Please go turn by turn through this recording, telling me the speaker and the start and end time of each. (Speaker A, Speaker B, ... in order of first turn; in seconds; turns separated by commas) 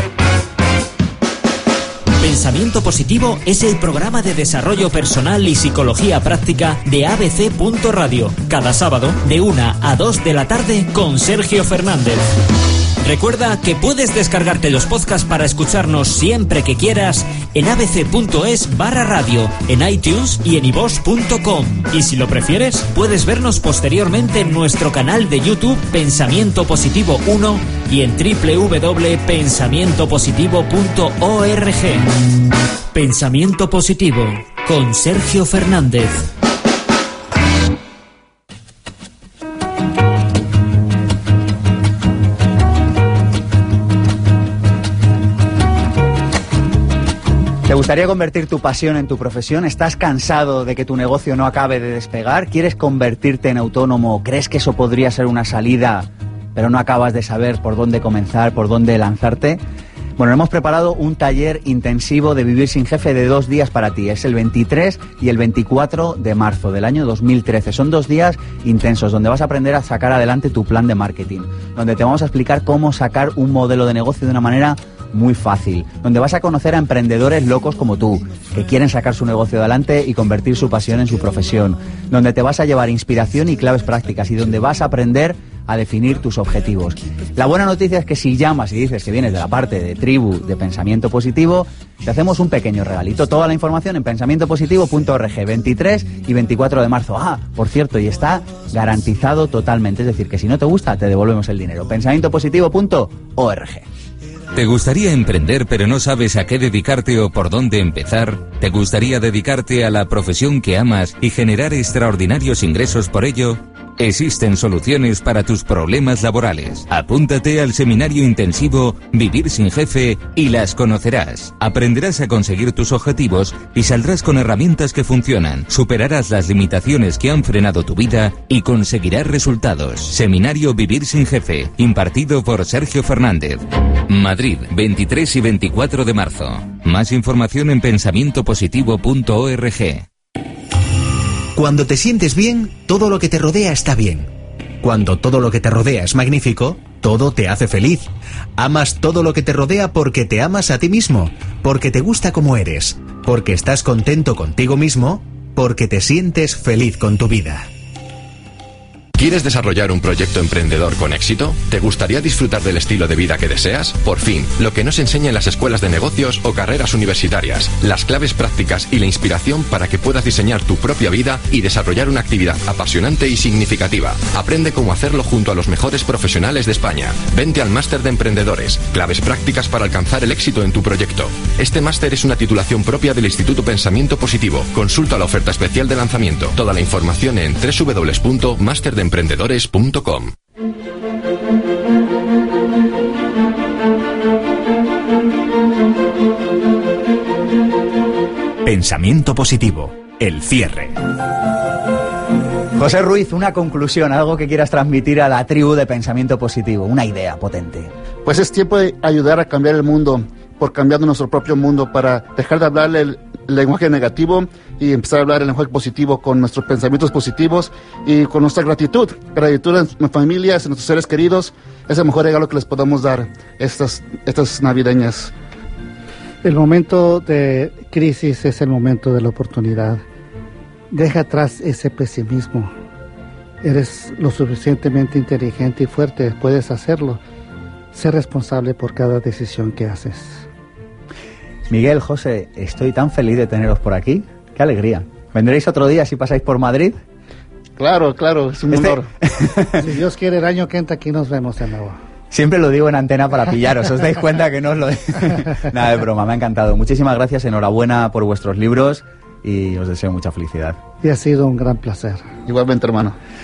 Speaker A: 2.2-12.2, Speaker A: 13.0-32.0, Speaker A: 32.9-36.3, Speaker B: 47.6-59.6, Speaker B: 60.2-103.9, Speaker C: 104.5-140.1, Speaker D: 141.5-144.3, Speaker D: 144.8-157.7, Speaker E: 159.2-190.3, Speaker D: 198.6-200.9, Speaker B: 202.7-207.9, Speaker F: 208.2-225.3, Speaker G: 226.4-230.0, Speaker G: 230.9-232.7, Speaker G: 233.6-237.2, Speaker G: 237.9-240.5, Speaker B: 241.7-247.0, Speaker F: 247.8-249.1, Speaker B: 248.7-249.8, Speaker G: 249.7-252.0, Speaker B: 252.3-260.8, Speaker G: 261.0-262.2, Speaker F: 262.4-263.1